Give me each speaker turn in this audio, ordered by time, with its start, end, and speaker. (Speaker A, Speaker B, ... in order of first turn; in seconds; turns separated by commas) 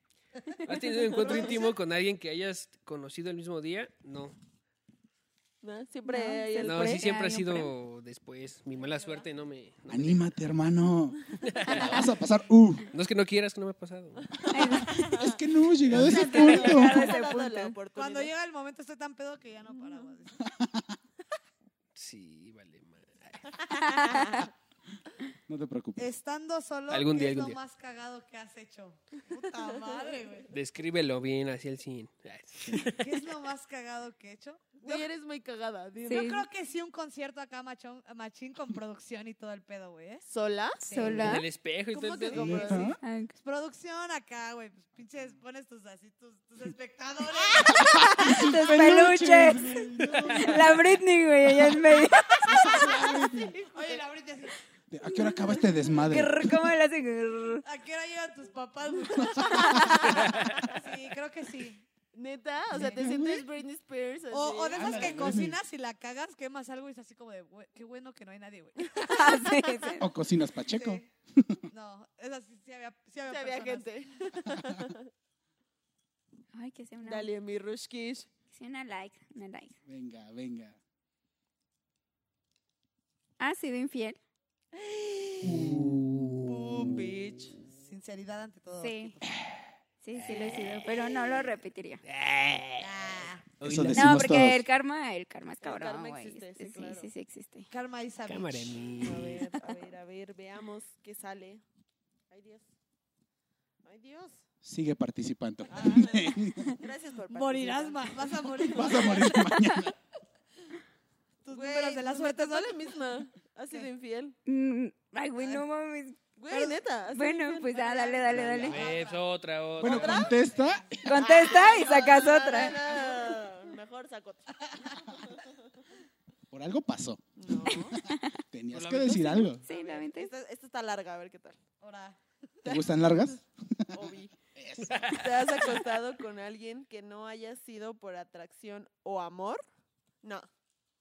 Speaker A: 0.6-4.3, Speaker B: 1.1-1.7, Speaker B: 5.6-7.1, Speaker C: 6.1-7.7, Speaker A: 6.6-10.3, Speaker D: 8.9-9.2, Speaker E: 9.9-12.9, Speaker A: 11.4-11.9, Speaker A: 12.9-14.3, Speaker B: 14.2-18.3, Speaker C: 14.5-15.1, Speaker E: 14.6-17.1, Speaker C: 16.0-17.8, Speaker D: 17.9-20.4, Speaker E: 20.4-21.0, Speaker A: 21.9-23.7, Speaker B: 23.6-24.5, Speaker C: 23.9-24.4, Speaker E: 25.5-26.1, Speaker D: 26.0-30.5, Speaker A: 26.9-27.6, Speaker B: 29.7-30.2, Speaker A: 30.5-33.2, Speaker D: 32.9-35.1, Speaker B: 34.8-36.1, Speaker D: 36.0-40.2, Speaker C: 36.1-36.5, Speaker B: 40.3-41.2, Speaker D: 40.8-41.4, Speaker C: 40.9-41.5, Speaker A: 41.2-42.8, Speaker B: 41.9-43.0, Speaker E: 42.3-43.0, Speaker C: 43.0-43.3, Speaker D: 43.3-48.3, Speaker E: 47.7-50.9, Speaker C: 47.9-52.9, Speaker A: 50.0-50.4, Speaker E: 51.4-53.6, Speaker B: 52.8-54.0, Speaker D: 53.7-54.6, Speaker E: 54.9-56.6, Speaker C: 55.1-57.6, Speaker D: 57.6-61.8, Speaker E: 59.1-60.0, Speaker C: 59.6-60.0, Speaker B: 60.1-60.7, Speaker B: 62.1-65.4, Speaker E: 62.7-63.5, Speaker D: 62.8-63.0, Speaker D: 64.3-69.5, Speaker E: 64.7-65.6, Speaker C: 69.0-70.0, Speaker E: 70.0-71.7, Speaker D: 70.7-71.1, Speaker D: 71.7-73.9, Speaker B: 73.3-75.1, Speaker C: 76.5-77.3, Speaker B: 77.0-78.3, Speaker C: 78.5-79.8, Speaker E: 79.8-80.8, Speaker C: 83.4-84.2, Speaker B: 84.7-85.7, Speaker E: 85.4-86.0, Speaker A: 85.5-87.1, Speaker B: 86.4-87.5, Speaker D: 87.7-89.4, Speaker C: 88.8-89.1, Speaker C: 90.0-92.0, Speaker A: 90.4-90.7, Speaker A: 92.0-92.9, Speaker D: 92.8-93.4, Speaker A: 93.6-94.1, Speaker E: 93.6-94.6, Speaker C: 93.9-97.7, Speaker B: 95.6-97.1, Speaker D: 97.7-98.8, Speaker A: 98.3-99.5, Speaker B: 99.0-101.6, Speaker B: 102.3-102.7, Speaker B: 103.8-104.4, Speaker E: 104.6-106.8, Speaker B: 105.7-109.1, Speaker D: 105.8-106.1, Speaker D: 107.3-109.4, Speaker E: 108.7-109.9, Speaker D: 111.4-112.8, Speaker B: 111.5-114.4, Speaker C: 114.5-116.2, Speaker B: 116.3-119.0, Speaker D: 116.5-116.8, Speaker C: 117.1-118.8, Speaker D: 118.1-119.2, Speaker E: 118.3-118.8, Speaker A: 118.7-120.3, Speaker E: 119.8-121.3, Speaker B: 119.8-120.3, Speaker D: 120.1-121.0, Speaker C: 121.0-122.8, Speaker B: 121.1-125.7, Speaker E: 126.5-129.6, Speaker B: 127.4-128.0, Speaker C: 128.1-128.3, Speaker A: 128.7-129.5, Speaker C: 129.6-130.3, Speaker B: 129.7-131.6, Speaker D: 131.8-132.6, Speaker E: 132.6-135.4, Speaker B: 132.6-133.2, Speaker B: 133.9-134.3, Speaker A: 134.9-135.4, Speaker B: 135.1-139.6, Speaker B: 140.2-140.5